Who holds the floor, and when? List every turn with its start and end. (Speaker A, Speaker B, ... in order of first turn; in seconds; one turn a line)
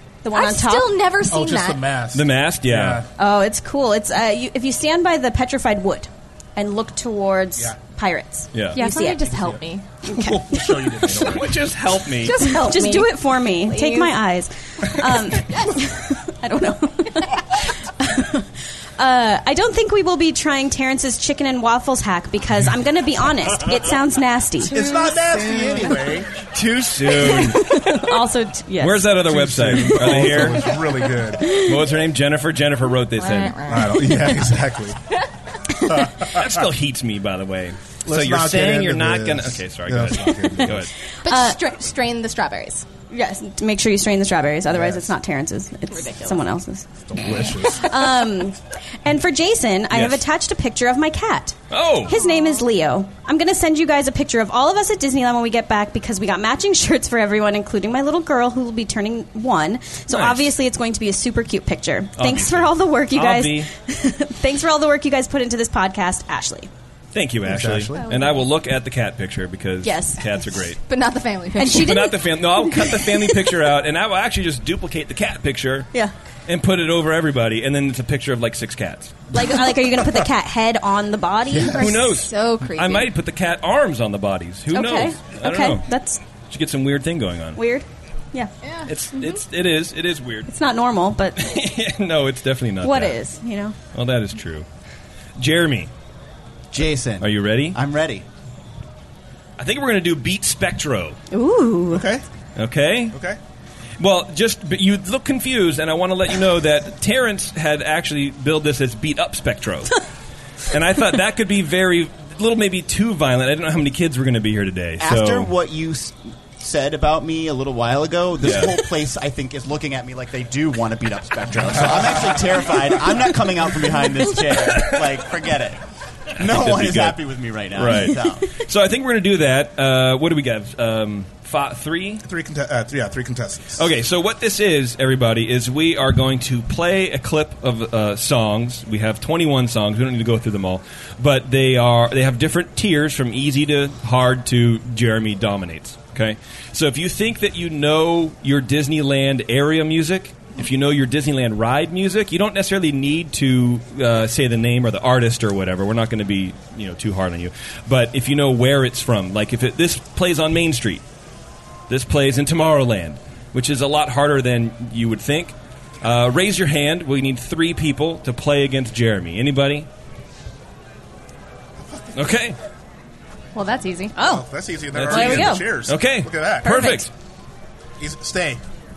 Speaker A: 0.2-0.9
Speaker B: 0.3-1.8
Speaker C: 1.3-3.0
Speaker D: 2.1-3.0
Speaker A: 3.2-9.2
Speaker D: 8.5-8.8
Speaker B: 8.7-9.9
Speaker C: 9.4-11.6
Speaker D: 11.1-12.4
Speaker B: 12.2-14.2
Speaker A: 12.3-24.8
Speaker B: 24.7-25.9
Speaker C: 24.7-26.3
Speaker D: 26.5-27.6
Speaker A: 27.3-30.4
Speaker D: 28.8-30.8
Speaker C: 29.3-31.5
Speaker D: 31.4-33.6
Speaker B: 33.2-34.3
Speaker C: 33.7-35.0
Speaker C: 35.9-36.6
Speaker D: 36.2-40.9
Speaker C: 38.1-40.9
Speaker B: 41.2-42.9
Speaker A: 41.2-41.6
Speaker A: 43.1-66.7
Speaker C: 44.7-45.0
Speaker B: 45.9-46.4
Speaker C: 47.1-47.9
Speaker D: 49.9-50.2
Speaker D: 51.7-52.2
Speaker D: 60.1-60.5
Speaker D: 62.2-63.7
Speaker D: 67.1-70.8
Speaker C: 67.4-68.0
Speaker B: 68.0-68.4
Speaker A: 69.8-70.2
Speaker B: 70.8-72.0
Speaker A: 71.6-73.5
Speaker D: 71.7-75.9
Speaker D: 76.5-79.2
Speaker A: 79.3-82.2
Speaker C: 81.5-81.9
Speaker D: 81.7-85.8
Speaker B: 81.8-83.1
Speaker A: 84.7-86.2
Speaker D: 86.5-87.6
Speaker A: 87.5-88.5
Speaker B: 88.6-88.9
Speaker D: 88.8-90.5
Speaker A: 90.5-91.5
Speaker D: 91.4-93.2
Speaker A: 92.8-93.8
Speaker D: 93.9-94.7
Speaker D: 95.4-95.9
Speaker E: 96.7-98.2
Speaker D: 97.2-97.8
Speaker D: 99.6-101.2
Speaker A: 101.3-102.0
Speaker C: 101.9-102.2
Speaker D: 102.5-103.1
Speaker C: 103.1-103.4
Speaker D: 104.0-110.0
Speaker D: 110.7-115.5
Speaker E: 115.0-125.8
Speaker D: 118.4-118.8
Speaker E: 126.3-128.5
Speaker D: 126.4-127.2
Speaker D: 127.7-132.2
Speaker C: 132.2-133.8
Speaker D: 133.8-161.0
Speaker D: 161.9-169.9
Speaker C: 171.8-172.2
Speaker D: 172.1-172.6
Speaker B: 173.5-174.2
Speaker A: 174.2-174.4
Speaker C: 174.2-177.0
Speaker D: 174.9-177.1
Speaker A: 175.1-175.7
Speaker A: 176.6-177.0
Speaker C: 178.0-178.6